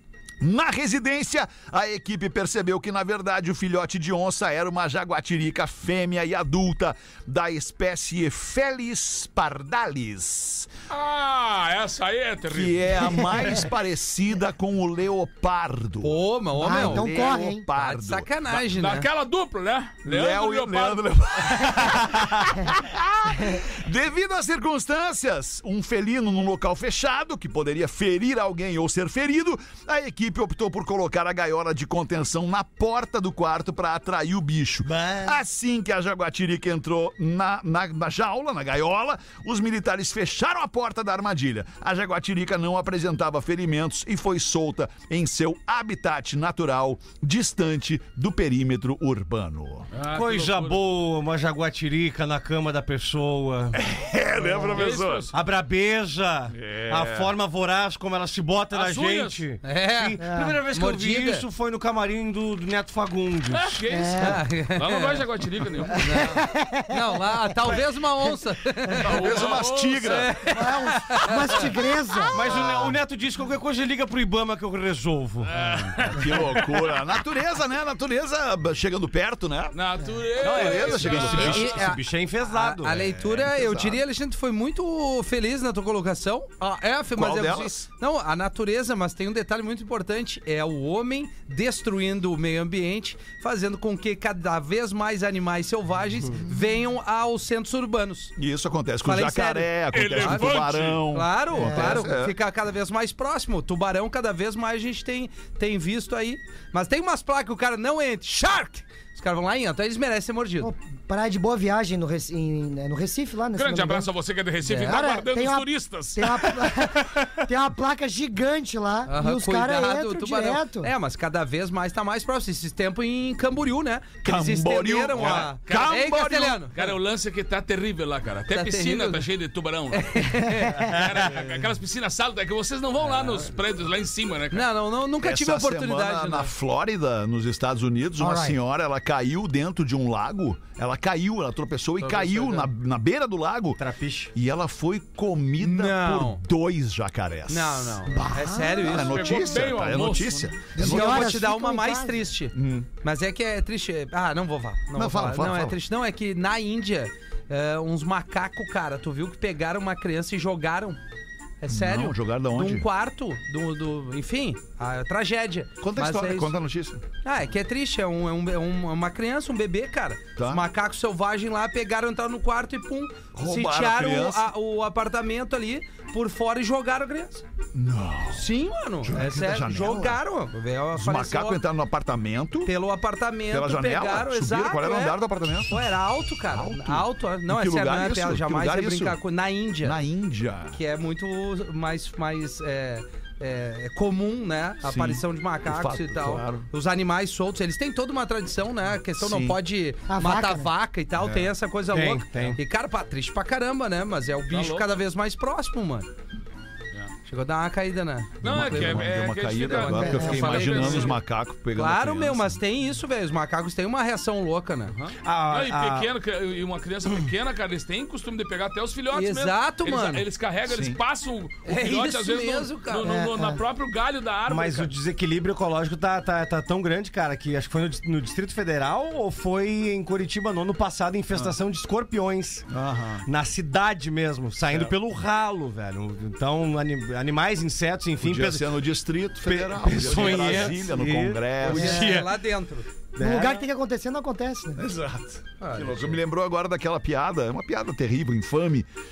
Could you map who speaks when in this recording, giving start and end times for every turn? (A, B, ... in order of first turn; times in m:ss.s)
0:00.4-0:10.7 A
0:10.9-0:13.0 B
0:12.5-0:18.5 A
0:16.0-0:19.1 C
0:16.6-0:17.6 D
0:18.7-0:21.8 B
0:20.0-0:49.9 A
0:34.8-0:35.4 E
0:49.9-0:50.8 B
0:50.1-0:53.8 E
0:53.7-0:55.3 A
0:54.4-0:54.7 D
0:54.7-0:55.3 B
0:55.3-1:03.8 E
0:56.5-0:57.3 A
0:58.7-0:59.4 B
0:59.6-1:01.4 C
1:00.2-1:00.6 D
1:03.5-1:06.0 B
1:03.9-1:04.4 D
1:04.2-1:05.2 C
1:05.9-1:07.8 D
1:06.0-1:09.4 C
1:09.0-1:10.3 B
1:09.0-1:10.3 A
1:10.1-1:11.7 C
1:10.5-1:12.5 D
1:12.3-1:15.8 E
1:12.6-1:13.0 B
1:15.4-1:16.9 B
1:16.1-1:19.8 A
1:19.7-1:21.8 B
1:20.4-1:23.0 E
1:20.4-1:21.7 A
1:21.4-1:38.3 C
1:22.9-1:24.0 A
1:27.1-1:27.9 A
1:38.4-1:42.4 A
1:39.0-1:40.6 C
1:39.9-1:41.0 B
1:41.1-1:50.7 C
1:41.5-1:42.1 D
1:50.6-1:54.1 D
1:53.5-1:56.8 B
1:54.6-2:00.9 D
1:59.0-2:06.8 C
2:04.2-2:06.6 A
2:05.2-2:06.0 B
2:06.7-2:10.2 B
2:08.5-2:09.3 C
2:09.9-2:11.0 C
2:10.4-2:11.0 D
2:10.9-2:14.7 B
2:14.5-2:16.5 C
2:15.2-2:23.8 A
2:18.2-2:18.6 D
2:22.0-2:22.7 B
2:23.8-2:24.3 E
2:24.3-2:31.4 A
2:25.6-2:26.4 C
2:27.5-2:29.5 C
2:28.3-2:28.8 D
2:28.9-2:30.6 B
2:30.7-2:32.3 D
2:30.8-2:41.0 C
2:32.5-2:32.9 A
2:34.9-2:35.8 A
2:41.6-2:46.5 C
2:41.6-2:42.9 A
2:45.8-2:47.0 A
2:47.2-2:57.4 C
2:50.4-2:50.6 A
2:53.3-2:54.5 A
2:57.7-3:00.2 A
2:58.3-3:01.6 C
3:00.9-3:02.7 A
3:02.6-3:10.0 C
3:03.5-3:05.8 A
3:06.5-3:09.2 A
3:09.8-3:10.8 A
3:10.7-3:26.1 C
3:14.8-3:16.7 A
3:19.2-3:19.6 A
3:20.1-3:20.7 D
3:21.2-3:21.5 A
3:21.9-3:22.6 E
3:24.5-3:24.9 B
3:27.2-3:31.2 C
3:28.4-3:31.2 B
3:28.4-3:32.6 A
3:30.0-3:30.4 D
3:31.7-3:34.9 C
3:34.9-3:44.9 B
3:35.2-3:36.1 E
3:39.1-3:40.2 C
3:40.6-3:41.0 A
3:41.6-3:43.1 C
3:43.0-3:43.6 D
3:44.5-3:52.6 E
3:52.7-3:53.2 A
3:53.2-3:58.7 E
3:58.2-4:02.0 A
3:59.4-4:02.4 E
4:00.1-4:00.7 C
4:01.6-4:02.9 C
4:01.7-4:02.2 D
4:03.2-4:03.6 E
4:03.2-4:04.8 D
4:04.8-4:08.9 A
4:05.6-4:06.2 C